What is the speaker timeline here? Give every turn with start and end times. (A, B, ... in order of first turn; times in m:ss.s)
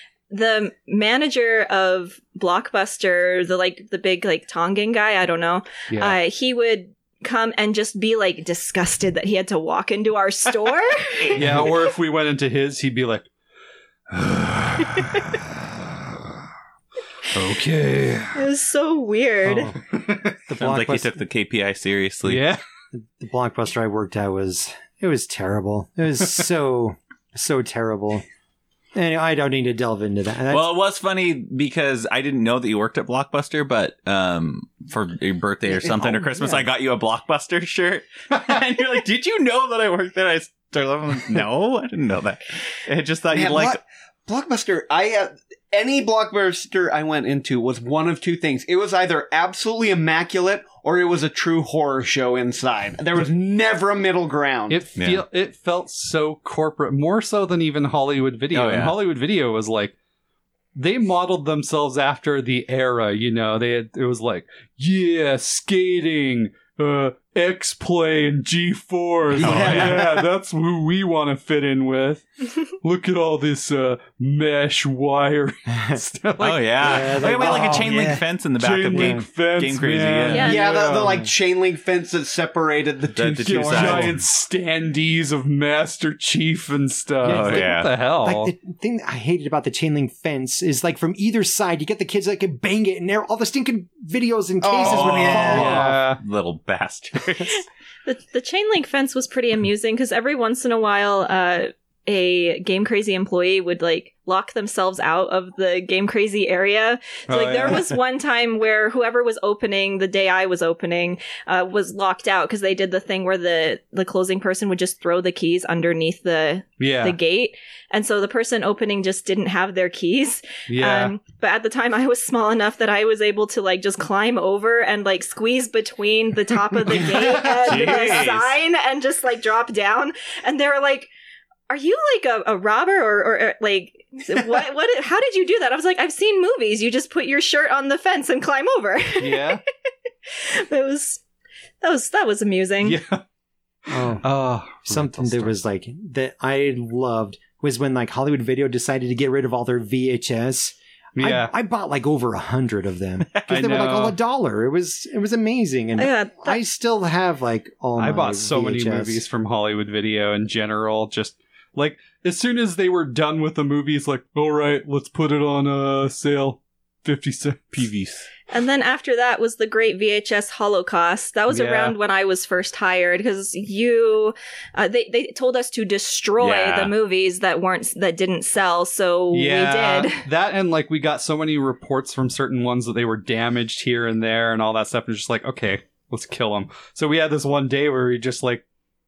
0:00.3-0:11.8 A
0:05.9-0:06.2 B
0:11.3-0:13.3 B
0:14.1-0:16.2 B
0:17.3-0:18.4 B
0:18.3-0:19.7 A
0:19.5-0:20.4 B
0:19.5-0:19.7 C
0:20.4-0:21.2 C
0:20.6-0:22.4 D
0:22.2-0:22.6 B
0:22.9-0:28.2 C
0:28.9-0:30.7 C
0:30.5-0:43.8 D
0:35.7-0:36.6 C
0:43.3-0:54.8 E
0:54.7-0:59.9 B
0:58.5-0:58.9 D
1:00.7-1:17.1 B
1:09.3-1:10.3 E
1:09.4-1:10.1 D
1:16.4-1:20.5 D
1:16.8-1:18.2 C
1:17.4-1:18.2 E
1:18.6-1:21.2 B
1:18.9-1:19.2 C
1:20.3-1:20.7 A
1:20.4-1:24.2 E
1:23.1-1:24.2 D
1:23.4-1:28.5 B
1:27.2-1:27.9 D
1:27.2-1:35.9 C
1:34.6-1:35.9 E
1:34.8-1:37.6 D
1:35.4-1:36.2 B
1:37.5-2:11.1 A
1:47.3-1:47.9 B
1:56.8-1:57.2 B
2:00.7-2:01.2 B
2:07.0-2:08.5 D
2:11.7-2:19.6 A
2:19.2-2:19.6 B
2:20.3-2:21.2 A
2:21.8-2:23.0 A
2:22.8-2:23.2 B
2:23.9-2:24.2 C
2:23.9-2:25.6 B
2:24.8-2:39.2 C
2:31.2-2:31.5 B
2:33.5-2:34.2 B
2:36.0-2:36.6 A
2:38.0-2:47.9 B
2:47.8-2:48.3 D
2:48.5-3:00.3 A
2:51.5-2:52.0 B
2:56.4-2:56.9 D
2:59.3-3:08.6 B